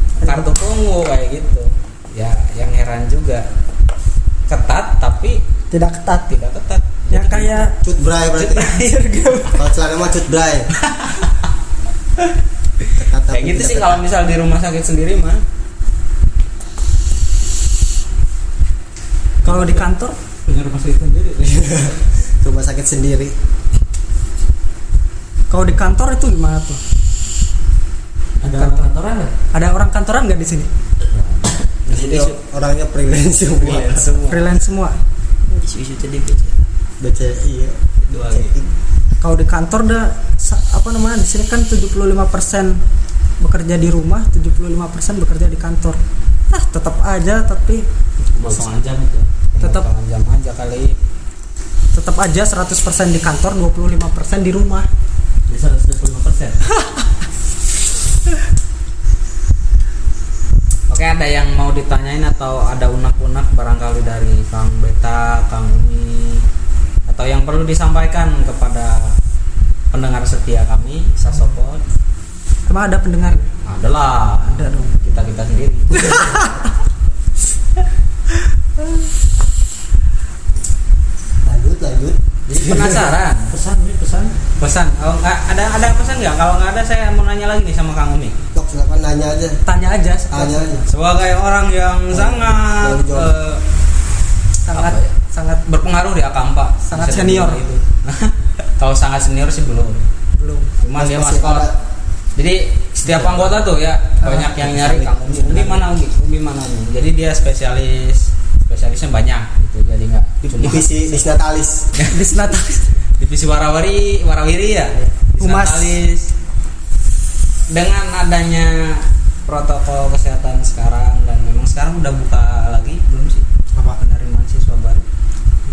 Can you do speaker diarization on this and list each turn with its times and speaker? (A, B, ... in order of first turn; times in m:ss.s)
0:00.2-0:00.6 A
0:00.2-0:03.5 B
0:04.5-0:05.4 B
0:05.7-0:06.3 A
0:06.3-0:07.7 B
0:07.1-0:07.8 A
0:07.8-0:08.8 C
0:08.4-0:09.6 B
0:09.5-0:10.7 C
0:13.0-0:14.0 C
0:13.3-0:15.4 B
0:19.4-0:20.2 A
0:19.4-0:19.8 D
0:20.5-0:21.9 D
0:21.4-0:23.4 C
0:25.5-0:26.8 A
0:28.4-0:29.3 D
0:28.4-0:28.9 A
0:29.5-0:30.7 A
0:31.1-0:31.5 D
0:31.9-0:34.2 C
0:31.9-0:32.4 E
0:33.6-0:34.4 E
0:34.3-0:35.0 A
0:35.5-0:36.6 E
0:37.0-0:38.6 C
0:38.0-0:38.6 E
0:39.2-0:42.8 A
0:43.4-0:47.9 A
0:48.3-0:51.0 B
0:48.4-0:49.2 D
0:49.6-0:49.9 A
0:51.9-0:54.9 A
0:55.5-0:56.7 D
1:00.9-1:06.4 B
1:07.1-1:09.2 B
1:09.9-1:11.8 B
1:12.7-1:13.5 A
1:13.6-1:16.3 B
1:14.4-1:15.0 A
1:16.0-1:16.6 A
1:21.4-1:23.1 C
1:22.5-1:23.5 B
1:23.5-1:24.4 D
1:24.6-1:28.4 B
1:28.6-1:29.6 C
1:29.7-1:30.8 A
1:30.3-1:30.8 C
1:30.9-1:33.6 B
1:32.1-1:33.4 C
1:34.7-1:35.6 A
1:34.7-1:35.1 B
1:35.7-1:40.1 B
1:36.9-1:37.6 A
1:40.4-1:40.7 A
1:40.8-1:41.7 B
1:41.0-1:41.8 C
1:42.4-1:51.1 B
1:44.2-1:44.6 A
1:44.6-1:45.8 C
1:50.4-1:51.9 C
1:52.0-1:52.2 B
1:52.1-1:53.0 A
1:53.2-1:56.3 B
1:55.4-1:56.0 A
1:57.7-2:05.1 B